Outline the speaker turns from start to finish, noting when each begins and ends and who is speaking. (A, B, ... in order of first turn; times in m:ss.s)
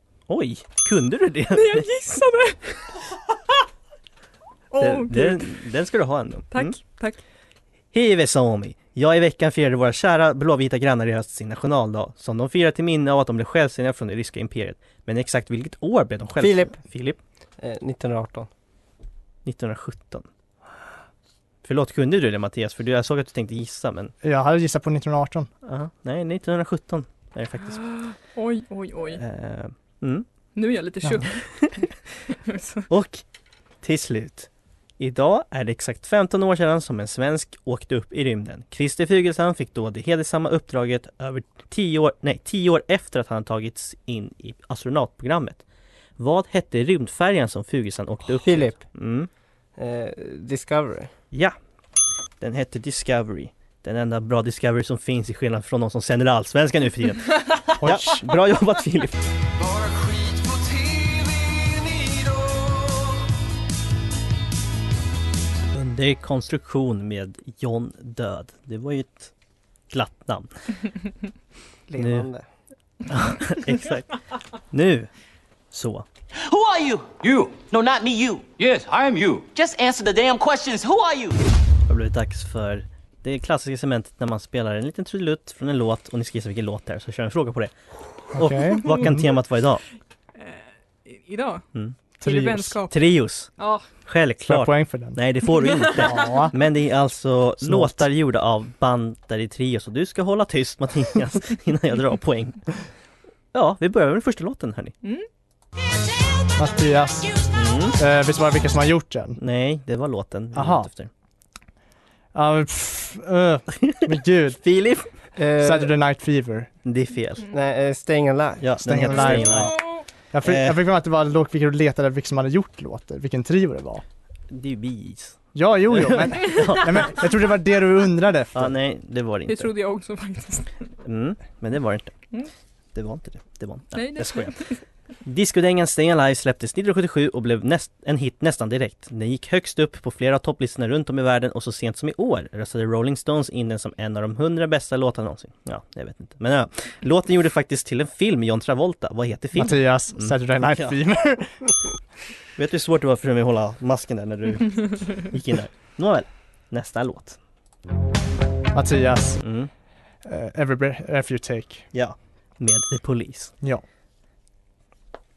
0:00.3-0:01.9 A
0:01.5-0:02.9 B
0:04.7-0:05.6 B
0:04.8-0:06.8 A
0:06.5-0:07.2 B
0:07.9-0:17.2 A
0:16.4-0:16.8 C
0:17.6-0:18.5 C
0:19.4-0:20.3 A
0:21.6-0:24.1 A
0:24.2-0:25.5 D
0:25.6-0:27.8 A
0:27.6-0:29.2 B
0:29.2-0:30.3 A
0:30.6-0:32.9 B
0:32.9-0:33.2 A
0:33.8-0:45.6 A
0:46.2-0:49.3 A
0:48.4-0:48.9 C
0:49.8-0:51.1 C
0:52.4-0:59.2 A
0:57.8-0:58.2 D
1:05.7-1:09.3 A
1:09.9-1:10.8 A
1:11.9-1:12.4 C
1:12.0-1:12.3 A
1:13.1-1:14.1 A
1:14.7-1:15.1 A
1:15.7-1:16.1 A
1:16.4-1:21.4 E
1:21.9-1:27.7 A
1:28.3-1:29.8 A
1:28.3-1:29.3 D
1:30.4-1:31.7 B
1:32.2-1:32.8 D
1:32.2-1:33.0 B
1:32.9-1:33.5 A
1:33.6-1:33.8 B
1:34.0-1:42.6 A
1:34.4-1:35.2 D
1:35.6-1:36.4 B
1:36.0-1:36.5 D
1:37.6-1:38.0 D
1:43.5-1:45.0 A
1:46.6-1:47.4 D
1:47.5-1:48.0 A
1:48.0-1:49.4 D
1:49.4-1:51.1 A
1:50.6-1:50.9 D
1:52.3-1:54.6 D
1:53.8-1:55.1 A
1:55.4-1:55.9 C
1:55.6-1:56.7 D
1:56.8-1:57.4 A
1:57.5-1:58.7 C
1:58.6-1:59.8 A
1:58.8-1:59.8 D
1:59.3-2:00.0 B
2:00.3-2:04.0 D
2:00.4-2:00.8 A
2:04.5-2:07.2 A
2:05.6-2:08.7 D
2:08.5-2:09.7 A
2:09.5-2:10.8 B
2:11.0-2:12.2 A
2:12.9-2:14.6 A
2:13.9-2:14.8 B
2:15.2-2:31.0 A
2:29.5-2:31.6 D
2:32.6-2:37.4 A
2:38.7-2:39.4 D
2:39.4-2:39.7 A
2:40.2-2:41.9 D
2:41.9-2:43.5 A